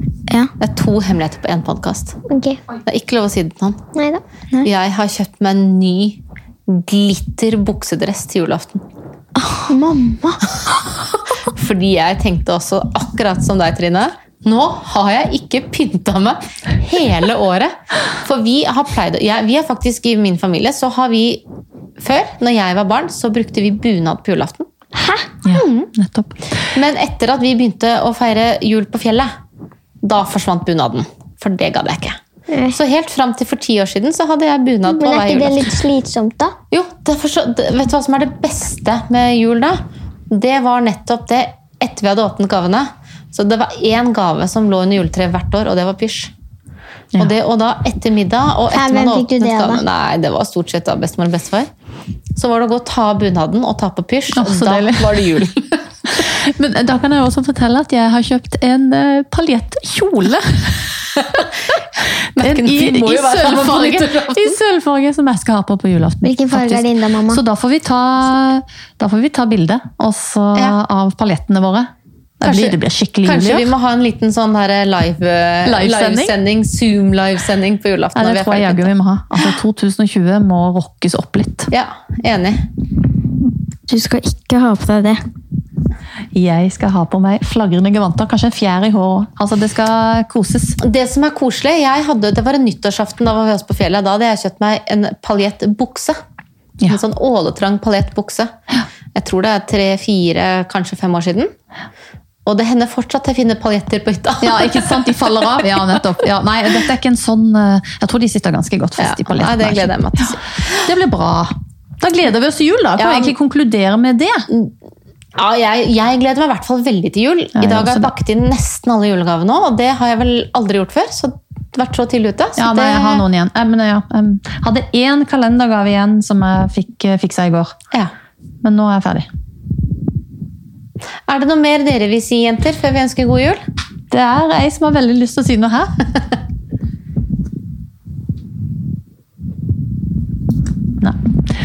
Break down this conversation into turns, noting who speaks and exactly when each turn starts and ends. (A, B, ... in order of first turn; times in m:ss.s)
0:00.6-0:02.2 A
0:02.3-0:02.6 B
0:02.8-0:03.8 A
0:04.0-0:04.2 B
0:04.6-0:08.8 A
0:09.4-0:09.9 C
0:09.7-0:10.5 B
0:11.5-0:21.4 A
0:22.0-0:24.7 A
0:25.4-0:26.4 D
0:25.5-0:25.9 A
0:26.7-0:29.3 A
0:30.0-0:32.2 A
0:32.5-0:32.8 B
0:32.7-0:35.8 A
0:34.9-0:36.6 B
0:36.7-0:46.3 A
0:47.2-0:51.7 A
0:48.7-0:49.8 B
0:52.4-0:55.8 A
0:54.3-0:55.2 D
0:56.1-1:01.5 D
1:02.3-1:04.6 A
1:02.4-1:13.7 D
1:06.2-1:07.4 B
1:12.4-1:18.9 A
1:15.6-1:16.4 D
1:18.2-1:21.7 D
1:21.7-1:22.6 A
1:23.9-1:25.2 C
1:26.3-1:30.8 D
1:30.8-1:36.2 A
1:36.8-1:38.5 A
1:39.2-1:41.5 A
1:42.4-1:46.1 A
1:44.4-1:54.5 D
1:49.0-1:50.8 A
1:53.0-1:53.4 A
1:55.4-2:03.2 A
1:57.6-1:58.1 D
2:02.6-2:07.8 D
2:08.6-2:09.3 D
2:11.3-2:13.6 A
2:14.1-2:16.0 D